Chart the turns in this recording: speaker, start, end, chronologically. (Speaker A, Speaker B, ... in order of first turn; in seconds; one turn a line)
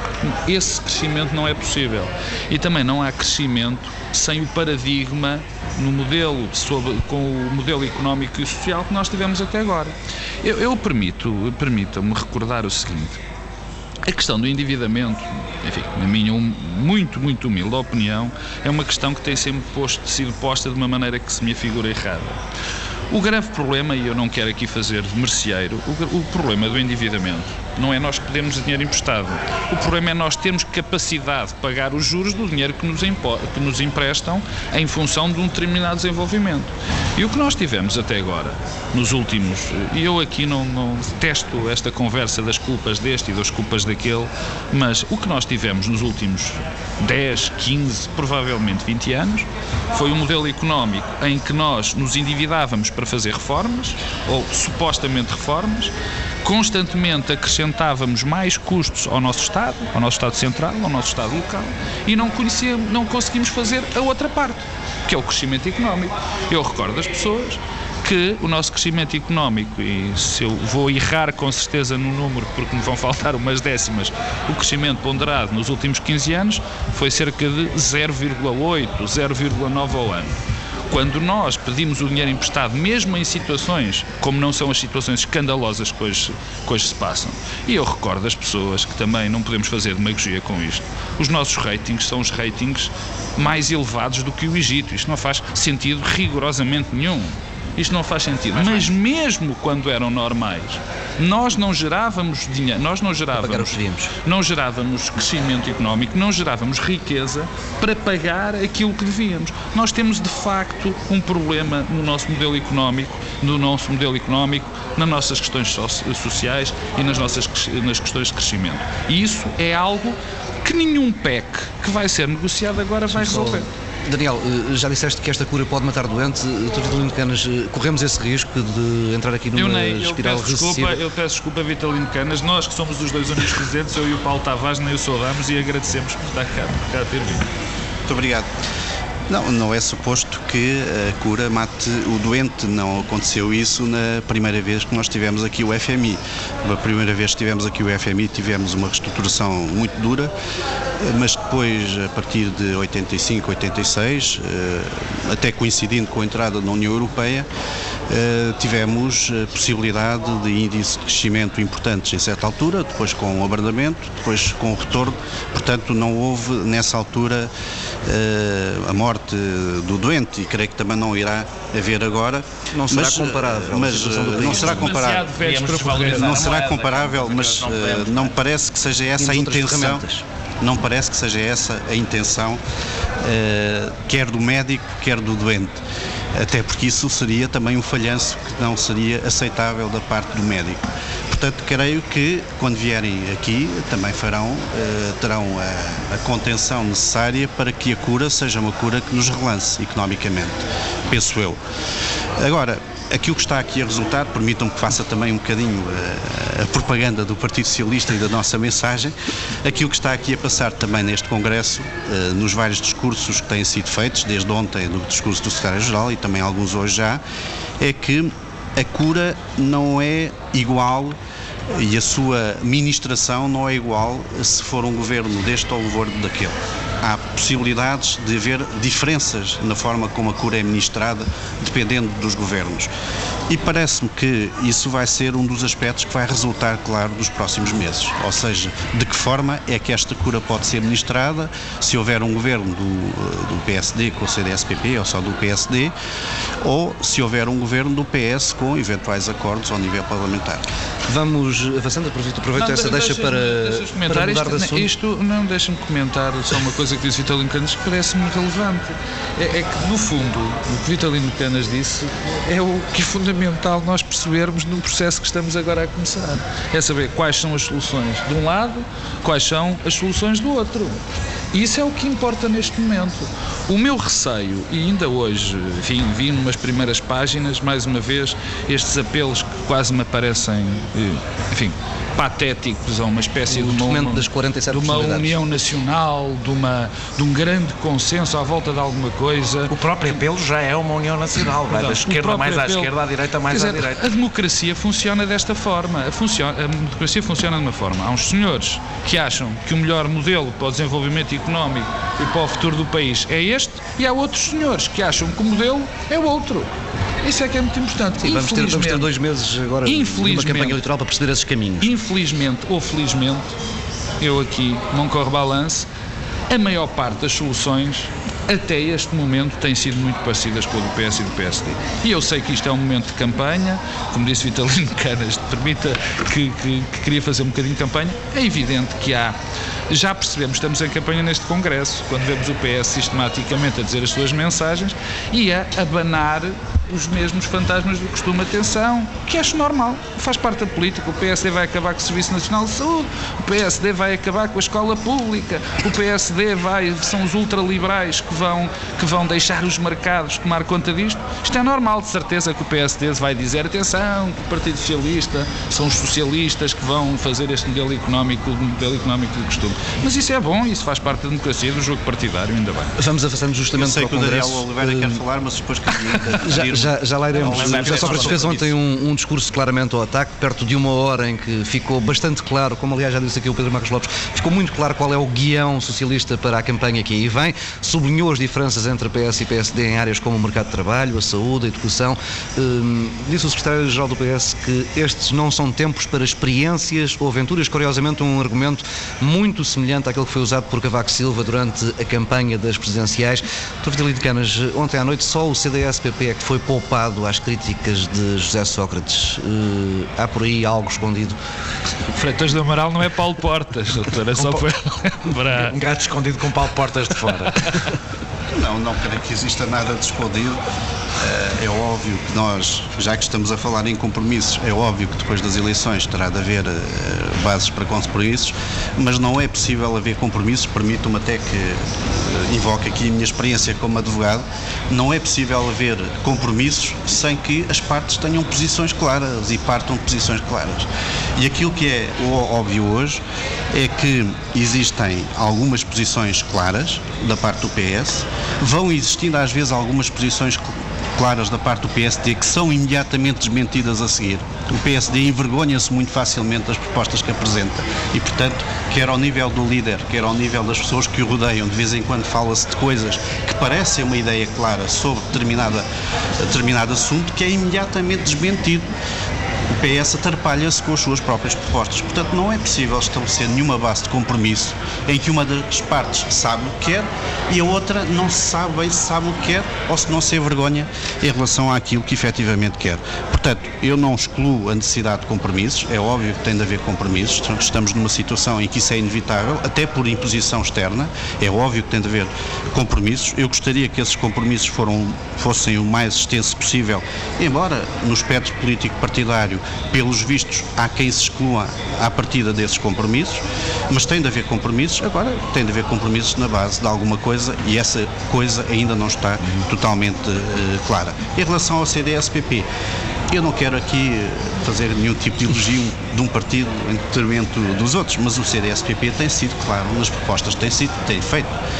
Speaker A: 0.2-13.2
Speaker A: 14.0-22.4
Speaker A: 23.1-80.4
Speaker A: 80.9-123.7
Speaker B: 98.6-98.9
Speaker C: 103.3-104.1
Speaker C: 123.1-131.0
Speaker A: 129.5-137.5
Speaker D: 138.1-138.5
Speaker D: 139.3-150.3
Speaker D: 151.0-157.5
Speaker D: 158.1-167.5
Speaker D: 168.1-175.3
Speaker C: 172.7-174.9
Speaker A: 174.4-176.5
Speaker B: 175.3-178.3
Speaker D: 175.8-180.0
Speaker C: 179.2-180.2
Speaker D: 180.6-182.6
Speaker D: 183.2-185.8
Speaker D: 186.3-201.6
Speaker D: 202.4-217.2
Speaker D: 217.8-221.2
Speaker D: 221.7-232.9
Speaker D: 233.5-245.9
Speaker D: 246.6-250.6
Speaker C: 251.1-254.9
Speaker A: 252.5-289.8
Speaker C: 283.5-285.4
Speaker B: 289.7-294.0
Speaker A: 291.7-292.9
Speaker A: 293.5-309.1
Speaker C: 308.2-311.9
Speaker A: 309.8-310.8
Speaker A: 311.8-313.5
Speaker A: 314.2-315.9
Speaker A: 316.5-329.4
Speaker A: 329.9-363.0
Speaker C: 363.0-365.2
Speaker D: 363.7-368.4
Speaker C: 366.4-401.4
Speaker A: 367.4-368.6
Speaker B: 367.4-368.5
Speaker A: 402.1-405.8
Speaker B: 405.5-407.7
Speaker D: 408.5-410.6
Speaker D: 411.2-433.2
Speaker D: 433.7-455.9
Speaker D: 456.4-458.9
Speaker D: 459.7-502.7
Speaker D: 503.3-511.5